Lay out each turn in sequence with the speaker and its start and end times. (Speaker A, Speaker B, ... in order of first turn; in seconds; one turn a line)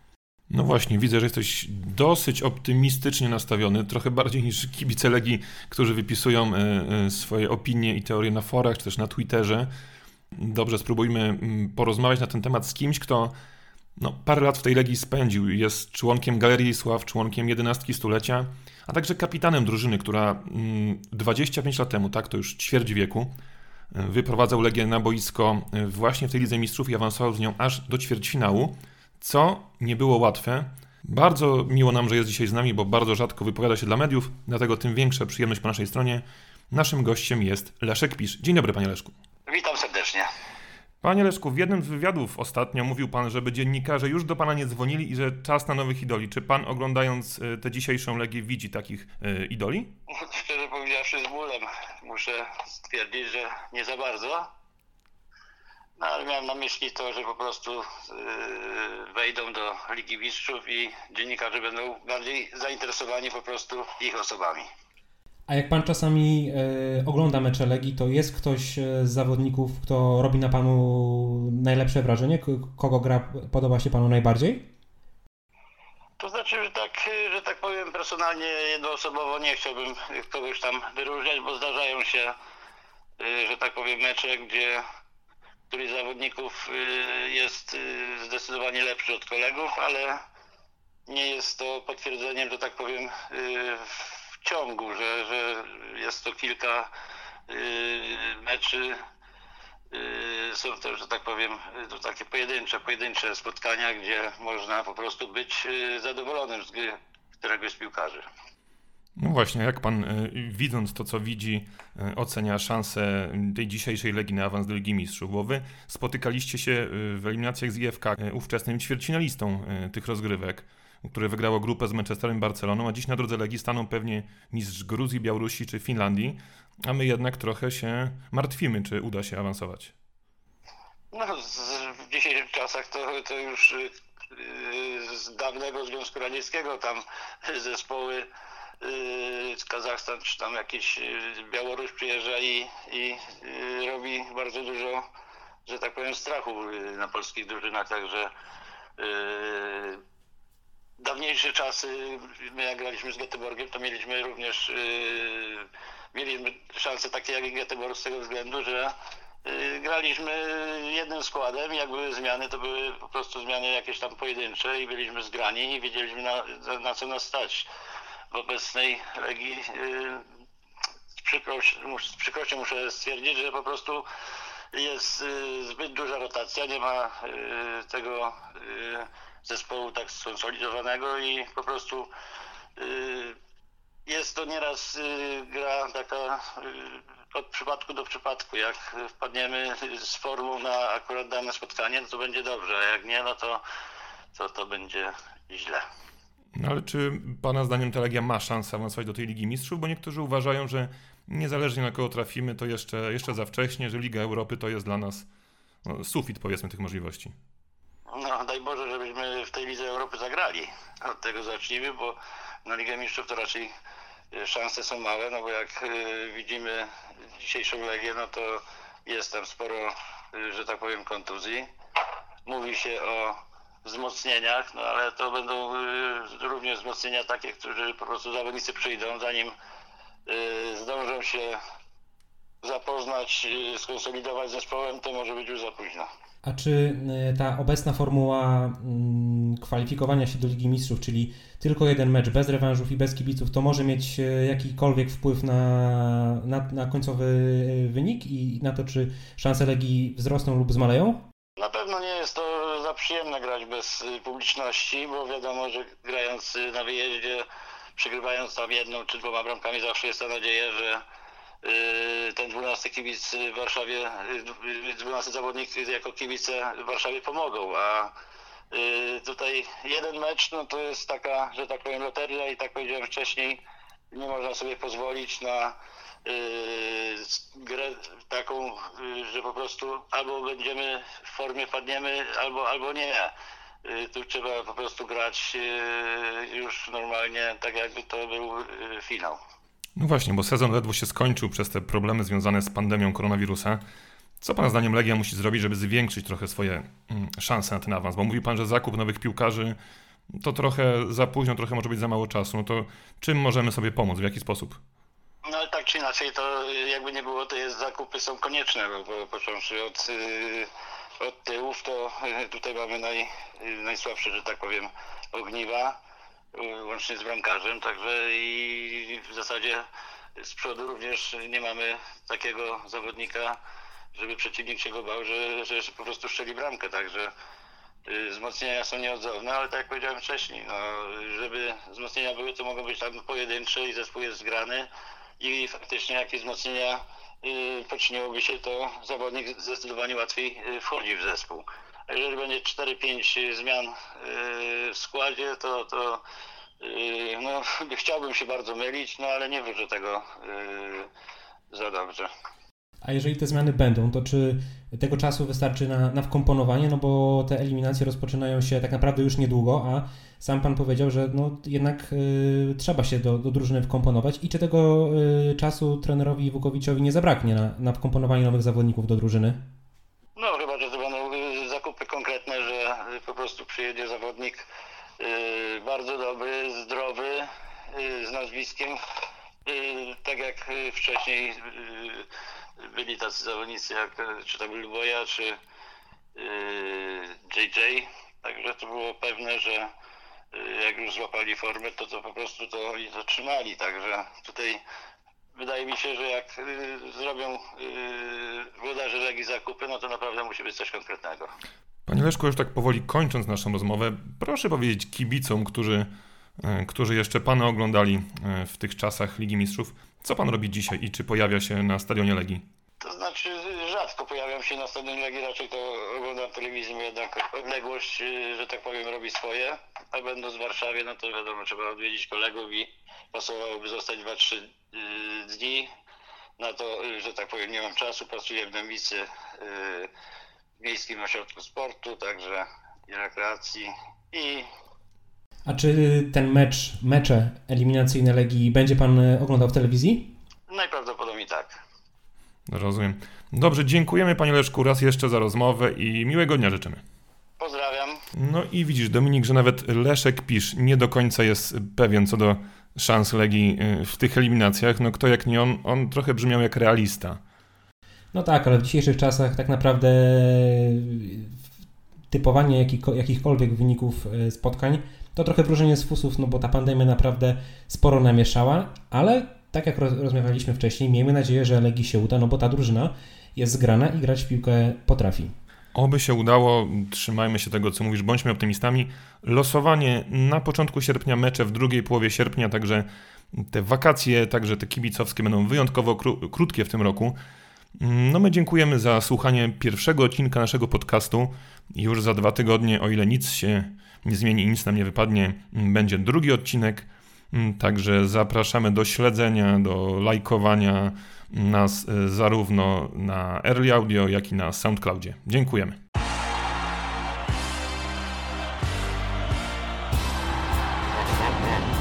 Speaker A: 0.5-9.7
Speaker A: 10.3-13.3
Speaker A: 14.0-23.3
Speaker A: 23.9-39.1
Speaker B: 39.5-40.3
Speaker A: 41.0-49.9
Speaker B: 50.1-54.5
Speaker B: 56.0-64.7
Speaker C: 65.5-74.7
Speaker B: 76.2-82.3
Speaker B: 83.2-84.8
Speaker B: 85.7-90.2
Speaker B: 91.1-96.9
Speaker B: 97.5-99.0
Speaker B: 99.9-108.2
Speaker A: 109.2-129.9
Speaker B: 131.1-138.3
Speaker B: 138.8-145.0
Speaker B: 145.7-148.3
Speaker B: 149.0-150.0
Speaker B: 151.0-158.9
Speaker B: 159.4-167.7
Speaker B: 168.3-170.2
Speaker B: 171.2-174.1
Speaker B: 174.7-182.1
Speaker B: 182.8-183.4
Speaker B: 184.1-193.6
Speaker B: 194.3-195.8
Speaker A: 196.6-205.3
Speaker A: 205.8-207.3
Speaker B: 208.1-213.7
Speaker B: 214.3-216.9
Speaker B: 217.4-221.7
Speaker B: 222.5-229.5
Speaker B: 230.3-231.6
Speaker B: 232.6-236.1
Speaker C: 236.4-251.2
Speaker B: 251.6-257.4
Speaker B: 258.0-261.0
Speaker B: 261.6-268.1
Speaker B: 268.7-283.3
Speaker B: 283.9-289.4
Speaker A: 290.0-293.8
Speaker A: 294.4-299.8
Speaker A: 300.4-304.8
Speaker B: 305.4-310.7
Speaker B: 311.2-316.0
Speaker B: 316.6-319.8
Speaker B: 320.4-323.6
Speaker B: 324.1-327.3
Speaker B: 328.1-334.9
Speaker B: 335.4-346.2
Speaker B: 346.8-351.1
Speaker B: 351.7-352.3
Speaker C: 353.0-369.6
Speaker B: 370.4-374.7
Speaker B: 375.2-379.0
Speaker B: 379.7-382.3
Speaker B: 382.8-385.6
Speaker B: 386.4-389.9
Speaker B: 390.5-394.8
Speaker B: 395.6-401.5
Speaker A: 402.1-406.1
Speaker A: 406.6-412.6
Speaker B: 413.0-425.9
Speaker B: 426.6-430.1
Speaker B: 430.8-434.7
Speaker C: 435.7-440.3
Speaker B: 440.7-441.8
Speaker A: 442.7-447.0
Speaker B: 447.6-448.2
Speaker A: 448.4-457.4
Speaker C: 458.3-461.5
Speaker C: 462.3-475.5
Speaker A: 475.9-487.4
Speaker A: 488.0-506.0